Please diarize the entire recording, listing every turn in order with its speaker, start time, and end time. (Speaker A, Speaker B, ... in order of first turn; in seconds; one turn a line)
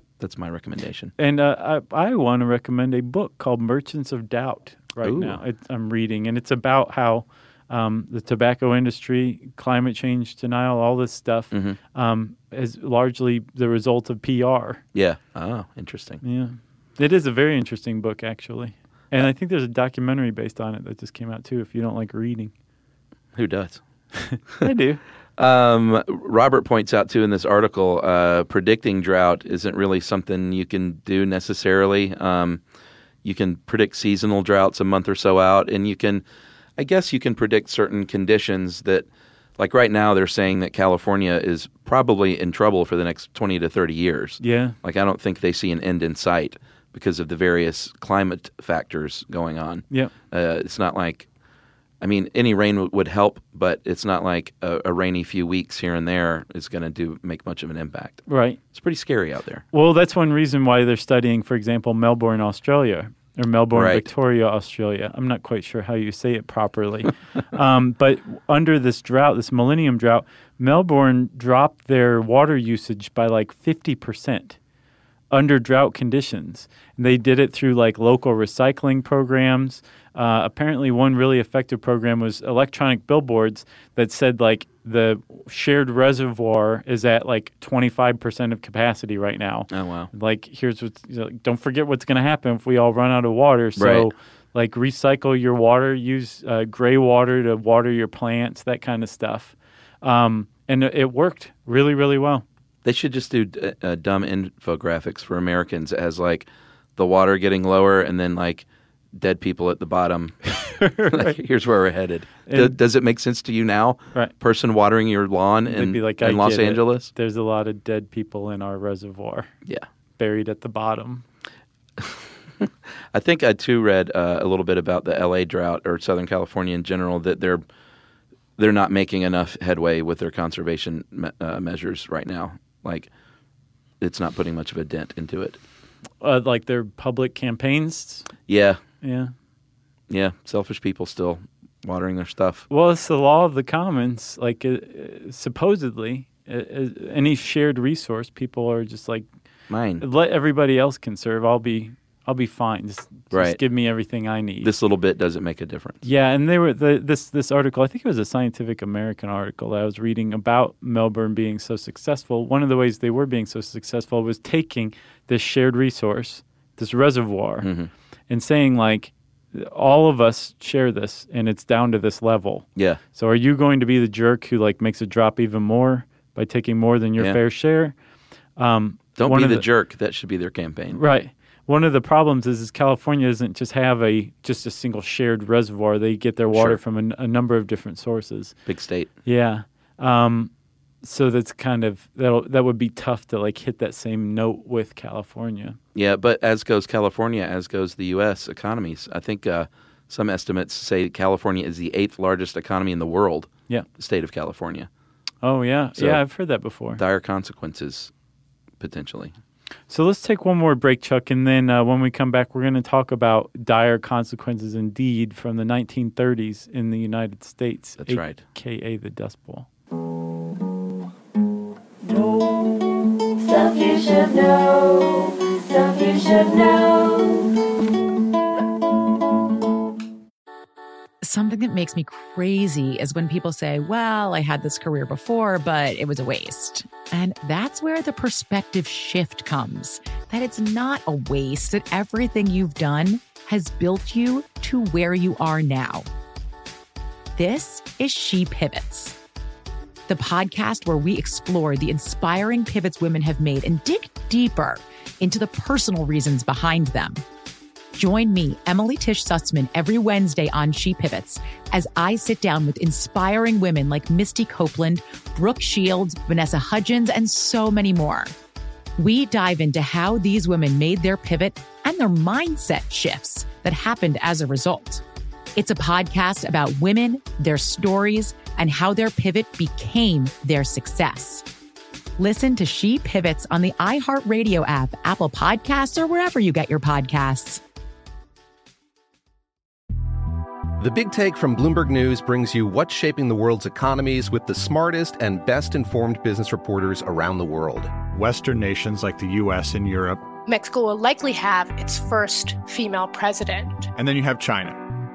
Speaker A: 0.2-1.1
Speaker B: 1.2-14.8
Speaker A: 5.0-5.4
Speaker A: 11.5-11.8
Speaker A: 14.9-16.2
Speaker B: 16.2-22.5
Speaker A: 23.3-23.8
Speaker B: 24.1-25.0
Speaker A: 25.4-32.6
Speaker A: 33.2-36.2
Speaker A: 36.8-39.0
Speaker A: 39.6-51.3
Speaker B: 44.4-44.8
Speaker A: 52.0-59.6
Speaker B: 58.3-58.6
Speaker B: 59.7-74.6
Speaker A: 63.7-64.0
Speaker B: 75.3-102.4
Speaker A: 89.7-90.1
Speaker A: 93.8-94.1
Speaker A: 102.8-110.4
Speaker B: 110.5-111.4
Speaker A: 111.1-117.1
Speaker B: 112.5-112.8
Speaker B: 115.7-119.5
Speaker B: 120.2-121.2
Speaker A: 122.0-127.6
Speaker A: 128.6-133.1
Speaker A: 134.0-135.6
Speaker B: 136.2-138.3
Speaker A: 138.5-138.8
Speaker B: 139.0-139.3
Speaker A: 140.1-142.7
Speaker B: 142.7-149.3
Speaker A: 149.7-150.0
Speaker B: 150.0-154.7
Speaker A: 153.3-153.6
Speaker A: 154.6-156.0
Speaker B: 156.0-167.7
Speaker A: 167.6-167.9
Speaker B: 168.3-177.9
Speaker B: 178.6-179.7
Speaker A: 179.2-181.0
Speaker B: 180.9-188.6
Speaker A: 186.5-186.8
Speaker A: 188.7-189.1
Speaker B: 189.2-190.5
Speaker B: 191.0-195.8
Speaker A: 195.9-204.9
Speaker B: 205.4-207.0
Speaker A: 205.9-206.2
Speaker A: 207.0-208.1
Speaker A: 208.8-209.3
Speaker B: 209.9-219.7
Speaker A: 218.0-218.4
Speaker C: 223.4-227.3
Speaker D: 231.2-246.1
Speaker D: 247.3-249.2
Speaker D: 250.1-257.2
Speaker D: 257.9-268.3
Speaker D: 269.0-275.0
Speaker D: 275.6-281.4
Speaker D: 282.2-287.6
Speaker E: 290.8-298.0
Speaker F: 298.0-300.2
Speaker G: 300.4-303.9
Speaker F: 303.9-304.8